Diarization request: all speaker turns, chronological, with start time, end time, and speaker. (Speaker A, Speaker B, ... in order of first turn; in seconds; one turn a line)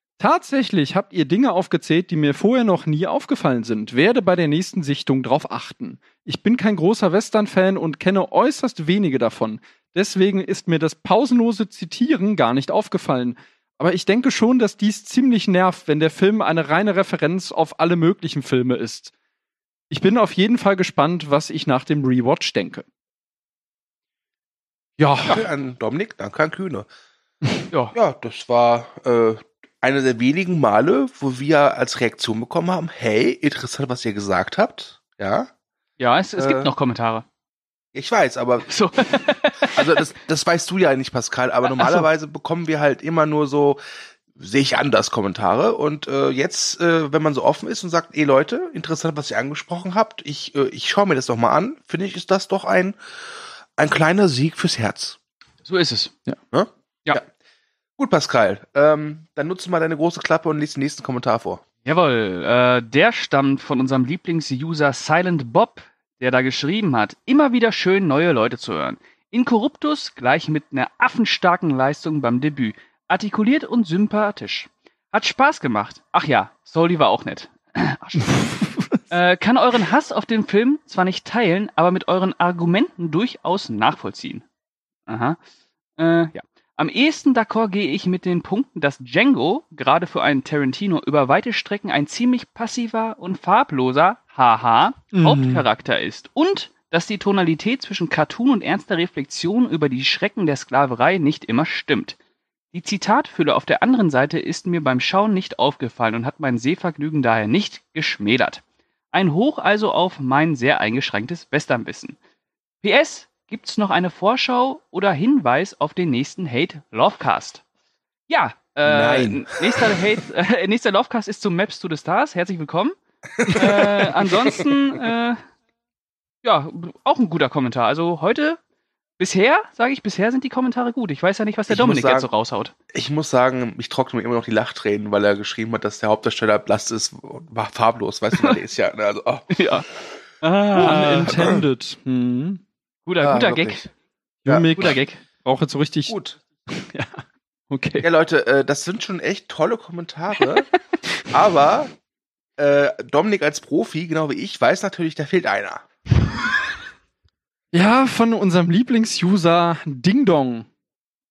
Speaker A: 0.2-19.1
Speaker A: 19.9-22.9
Speaker A: 25.0-25.4
Speaker B: 25.2-26.9
Speaker B: 27.9-35.5
Speaker C: 36.0-37.2
Speaker B: 36.4-36.7
Speaker B: 37.9-43.8
Speaker C: 38.7-40.0
Speaker C: 41.7-42.0
Speaker B: 44.3-53.0
Speaker B: 53.8-55.2
Speaker C: 55.6-56.1
Speaker B: 56.5-57.3
Speaker B: 58.0-61.6
Speaker C: 61.8-78.5
Speaker A: 78.4-79.0
Speaker C: 79.1-84.4
Speaker C: 85.1-85.4
Speaker C: 86.0-102.2
Speaker A: 95.1-95.5
Speaker C: 102.7-112.2
Speaker C: 112.8-117.6
Speaker C: 118.3-123.0
Speaker B: 118.8-120.1
Speaker B: 123.4-124.6
Speaker C: 123.5-125.4
Speaker C: 126.4-128.6
Speaker C: 129.2-132.7
Speaker B: 131.7-132.3
Speaker B: 132.9-140.1
Speaker C: 139.5-139.9
Speaker C: 140.4-141.6
Speaker A: 140.7-142.6
Speaker B: 141.3-141.6
Speaker C: 143.1-143.9
Speaker B: 143.2-143.8
Speaker B: 144.4-145.0
Speaker A: 144.4-146.1
Speaker C: 144.8-145.2
Speaker B: 146.1-146.4
Speaker A: 146.7-148.1
Speaker B: 148.0-150.7
Speaker B: 151.3-151.9
Speaker B: 152.6-155.8
Speaker A: 157.7-160.7